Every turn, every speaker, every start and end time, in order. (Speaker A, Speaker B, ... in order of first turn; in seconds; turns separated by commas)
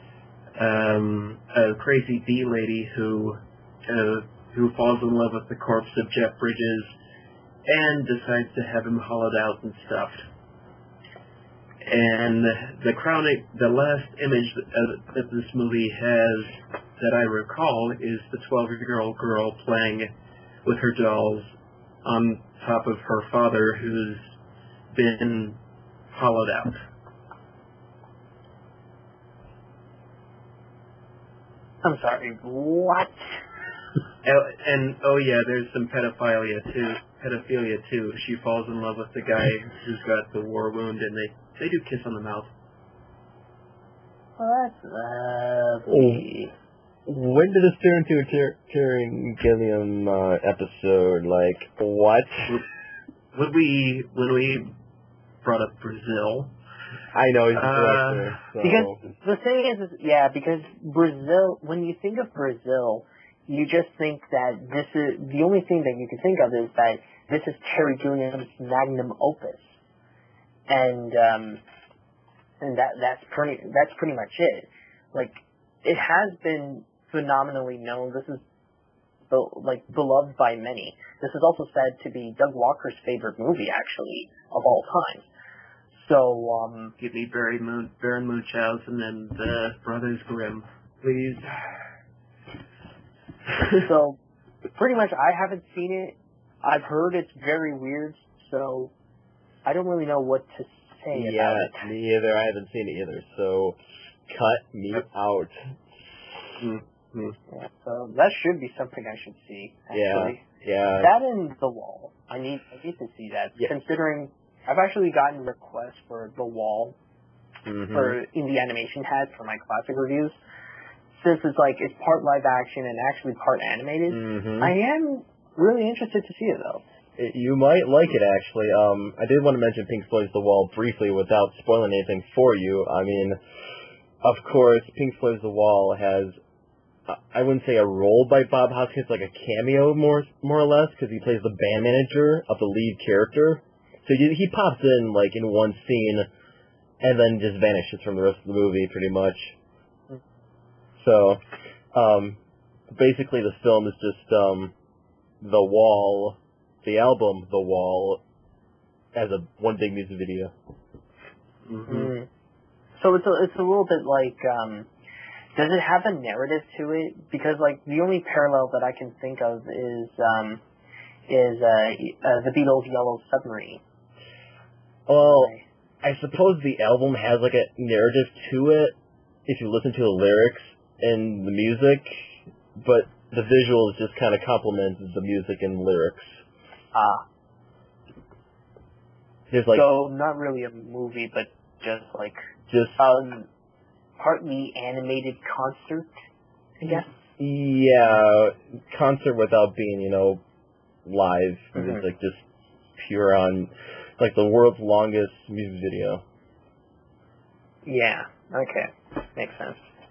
Speaker A: 0.6-6.9, Speaker A: 7.6-10.3, Speaker A: 11.8-20.1, Speaker A: 20.6-24.4, Speaker A: 24.9-25.6, Speaker A: 26.1-26.8, Speaker B: 31.8-33.1, Speaker A: 34.2-42.5, Speaker B: 44.4-46.5, Speaker C: 45.9-46.3, Speaker C: 47.0-52.6, Speaker A: 53.3-54.7, Speaker A: 55.4-56.5, Speaker C: 57.1-59.0, Speaker A: 57.5-58.4, Speaker B: 58.6-69.8, Speaker B: 70.7-71.6, Speaker B: 72.6-78.4, Speaker B: 79.3-85.2, Speaker B: 85.9-87.0, Speaker A: 87.0-91.7, Speaker B: 93.8-94.2, Speaker B: 94.8-98.9, Speaker B: 99.6-101.9, Speaker C: 101.1-105.6, Speaker A: 106.6-107.4, Speaker B: 107.5-110.4, Speaker C: 109.9-111.1, Speaker B: 111.0-117.0, Speaker C: 117.6-118.2, Speaker B: 117.9-120.4, Speaker B: 121.1-126.8, Speaker C: 124.1-124.7, Speaker C: 127.2-133.4, Speaker C: 134.2-136.4, Speaker C: 137.1-146.3, Speaker C: 147.0-149.6, Speaker C: 151.0-151.4, Speaker C: 151.9-152.4, Speaker C: 152.9-154.7, Speaker C: 155.4-158.2, Speaker C: 159.1-160.5, Speaker A: 161.7-162.1, Speaker B: 161.9-162.3, Speaker B: 163.0-164.9, Speaker B: 165.6-170.6, Speaker B: 171.3-173.8, Speaker C: 175.1-186.4, Speaker B: 175.2-175.6, Speaker B: 186.9-187.2, Speaker C: 189.5-189.8, Speaker B: 189.7-192.4, Speaker C: 192.7-193.0, Speaker B: 193.0-193.5, Speaker B: 194.2-196.1, Speaker B: 196.8-197.1, Speaker C: 197.4-200.4, Speaker C: 201.1-202.4, Speaker B: 201.7-202.0, Speaker C: 203.0-206.2, Speaker B: 207.9-209.8